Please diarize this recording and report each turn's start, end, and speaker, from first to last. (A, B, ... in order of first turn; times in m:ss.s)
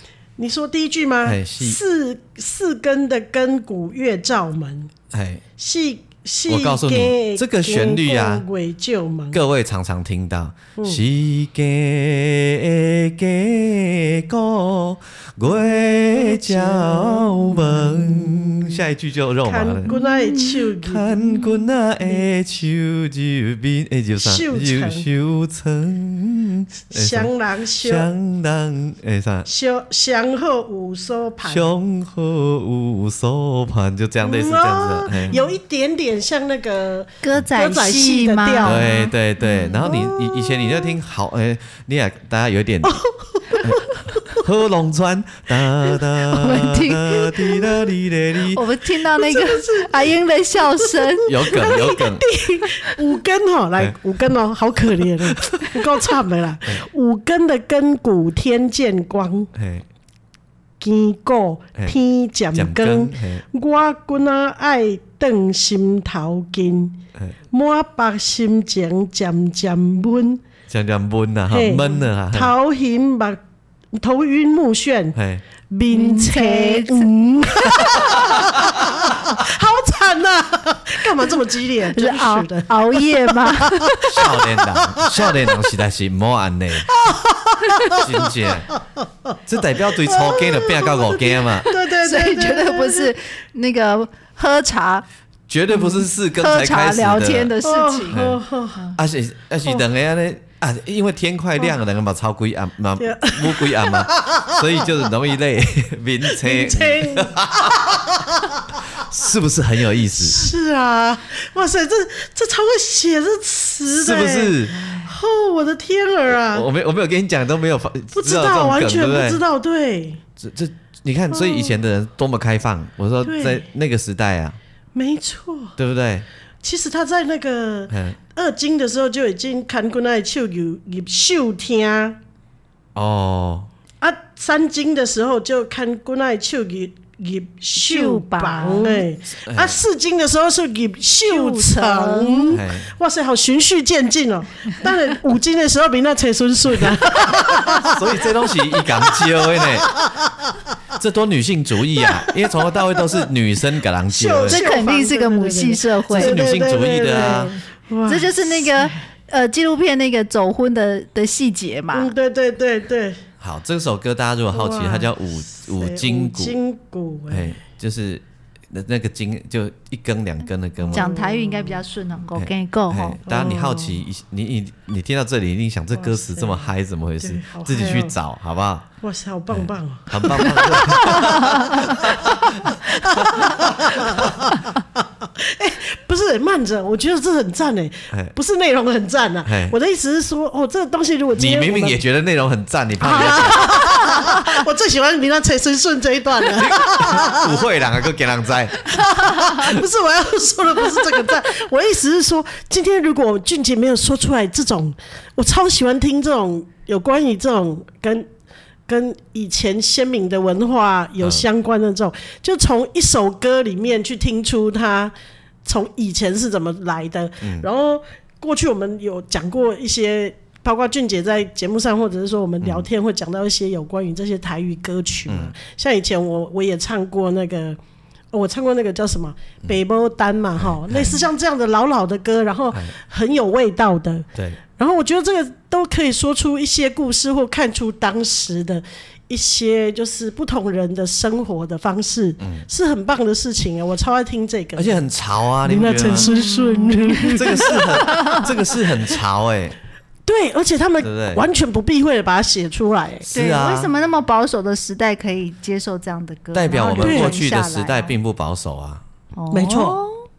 0:00.4-0:04.9 A
0:01.2-0:01.8 B
0:05.1-0:05.4 B
0:05.6-0:09.4 A
0:06.5-0:08.4 B
0:09.3-0:19.9 B
0:10.8-0:11.0 A
0:15.5-0:17.9 A
0:19.4-0:21.2 A
0:19.9-0:20.6 C
0:20.7-0:29.5 B
0:24.2-0:25.1 A
0:26.9-0:28.1 A
0:29.5-0:31.7 A
0:31.4-0:35.4 B
0:34.2-0:39.1 A
0:37.2-0:39.9 C
0:38.6-0:43.0 B
0:39.8-0:40.9 A
0:42.8-0:44.0 A
0:43.6-0:48.6 B
0:46.2-0:47.6 C
0:48.5-0:51.7 C
0:49.1-0:50.1 A
0:50.8-0:59.5 A
0:51.2-0:52.3 B
0:55.2-0:56.0 B
0:59.5-0:59.8 B
1:00.8-1:07.0 A
1:02.5-1:03.4 B
1:07.5-1:10.4 A
1:10.7-1:12.5 B
1:11.5-1:13.4 A
1:13.9-1:15.2 A
1:15.1-1:15.4 B
1:15.7-1:25.7 A
1:15.9-1:17.1 C
1:17.6-1:18.9 B
1:17.6-1:18.2 C
1:21.9-1:24.1 C
1:24.0-1:26.9 B
1:26.9-1:28.5 A
1:27.9-1:28.7 B
1:29.4-1:31.7 B
1:29.9-1:33.1 A
1:32.0-1:35.0 C
1:35.5-1:37.5 B
1:35.7-1:38.2 C
1:37.6-1:38.9 A
1:38.1-1:38.4 B
1:39.0-1:48.2 B
1:43.0-1:44.7 A
1:46.3-1:48.8 A
1:48.9-1:50.5 B
1:50.1-1:56.7 A
1:54.0-1:54.9 B
1:56.5-1:59.4 B
1:58.1-2:00.2 A
2:00.4-2:04.6 B
2:01.3-2:01.8 A
2:03.2-2:03.6 A
2:04.9-2:05.8 A
2:05.8-2:06.2 B
2:06.6-2:12.2 A
2:07.9-2:08.2 B
2:12.9-2:13.7 B
2:14.0-2:30.0 A
2:17.7-2:19.1 C
2:19.4-2:19.8 B
2:21.3-2:22.6 C
2:22.5-2:22.9 B
2:26.8-2:29.9 B
2:30.9-2:34.6 B
2:32.0-2:32.3 A
2:34.1-2:38.7 A
2:34.5-2:36.4 C
2:36.1-2:37.5 B
2:37.1-2:42.1 C
2:41.9-2:43.2 A
2:43.4-2:46.6 B
2:44.5-2:47.5 A
2:47.3-2:51.1 B
2:50.9-2:51.8 A
2:50.9-2:53.2 C
2:52.3-2:58.9 B
2:53.2-2:54.0 A
2:55.9-2:56.7 A
2:57.2-2:58.1 A
2:59.0-3:12.0 A
2:59.5-3:04.3 B
3:01.4-3:01.8 C
3:09.4-3:09.8 B
3:11.4-3:14.3 B
3:13.0-3:14.4 C
3:13.1-3:17.6 A
3:16.6-3:19.8 B
3:18.9-3:28.3 A
3:28.9-3:35.1 A
3:31.2-3:31.4 B
3:35.6-3:47.8 A
3:37.4-3:37.7 B
3:42.6-3:42.9 B
3:45.3-3:45.5 B
3:48.3-4:05.0 A
3:50.6-3:51.2 B
4:02.4-4:02.6 B
4:04.8-4:06.4 B
4:05.6-4:08.0 A
4:06.2-4:08.5 C
4:07.3-4:09.8 B
4:10.2-4:13.3 A
4:11.0-4:11.4 B
4:13.3-4:13.9 B
4:13.3-4:18.1 C
4:16.5-4:19.0 B
4:17.0-4:17.4 A
4:19.3-4:20.2 C
4:19.5-4:20.0 A